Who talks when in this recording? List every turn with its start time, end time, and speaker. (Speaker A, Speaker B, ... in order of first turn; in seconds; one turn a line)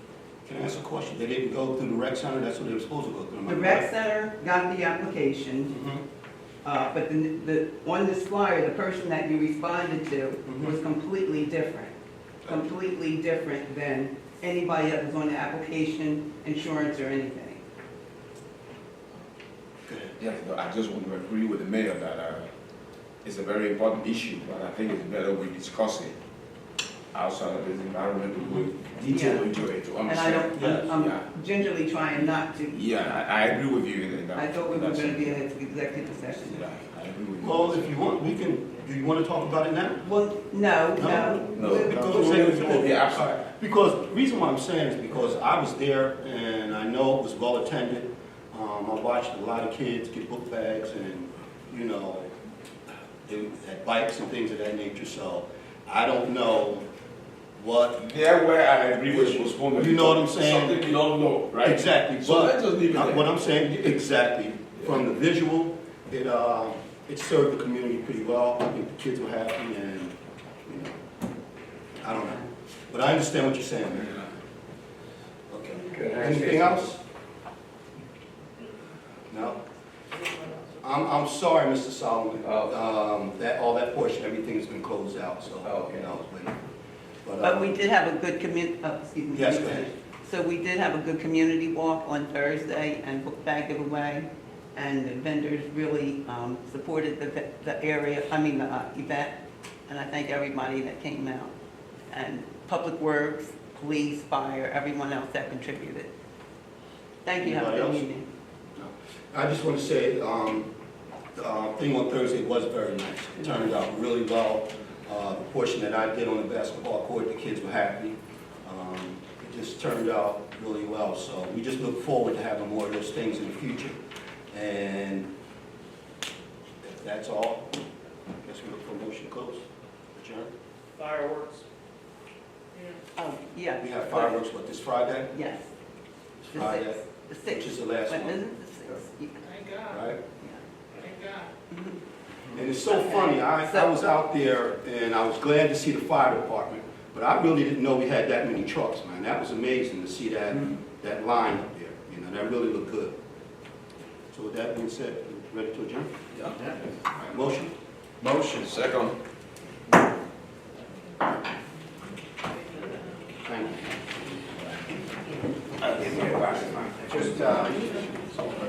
Speaker A: 0.5-3.9
Speaker B: 3.5-5.8
Speaker A: 5.7-6.0
Speaker B: 6.6-11.9
Speaker A: 10.5-10.8
Speaker B: 12.4-17.6
Speaker A: 19.9-20.1
Speaker C: 20.2-22.5
Speaker C: 23.2-26.1
Speaker C: 27.1-31.2
Speaker B: 29.1-29.5
Speaker B: 30.1-32.9
Speaker C: 32.7-35.4
Speaker B: 34.3-36.7
Speaker C: 36.5-38.1
Speaker A: 37.4-40.0
Speaker B: 40.0-42.5
Speaker A: 41.0-52.3
Speaker C: 41.5-43.5
Speaker A: 53.2-56.9
Speaker A: 57.6-58.0
Speaker C: 58.0-63.3
Speaker A: 59.1-60.9
Speaker A: 61.6-71.0
Speaker A: 72.0-74.3
Speaker A: 75.5-77.0
Speaker C: 76.0-76.6
Speaker A: 79.3-79.6
Speaker A: 80.8-86.6
Speaker C: 82.4-82.7
Speaker C: 85.6-86.1
Speaker A: 87.2-87.8
Speaker B: 87.4-99.4
Speaker A: 89.3-89.9
Speaker B: 99.9-101.5
Speaker B: 102.1-106.1
Speaker B: 107.2-108.3
Speaker A: 107.4-108.1
Speaker A: 108.8-110.7
Speaker A: 111.4-124.0
Speaker A: 124.5-125.3
Speaker A: 126.8-127.8
Speaker A: 128.4-130.5
Speaker D: 130.9-131.7
Speaker D: 132.7-133.0
Speaker B: 133.2-134.4
Speaker A: 133.8-135.3
Speaker B: 135.3-135.7
Speaker A: 136.4-138.4
Speaker B: 136.5-139.5
Speaker D: 139.4-140.0
Speaker A: 139.9-140.2
Speaker D: 141.0-141.5
Speaker B: 141.7-142.0
Speaker A: 142.5-153.2
Speaker B: 142.8-144.1
Speaker A: 154.3-156.1
Speaker A: 157.2-157.8
Speaker C: 158.2-159.2
Speaker A: 163.4-164.0
Speaker C: 165.8-167.5
Speaker A: 167.0-168.6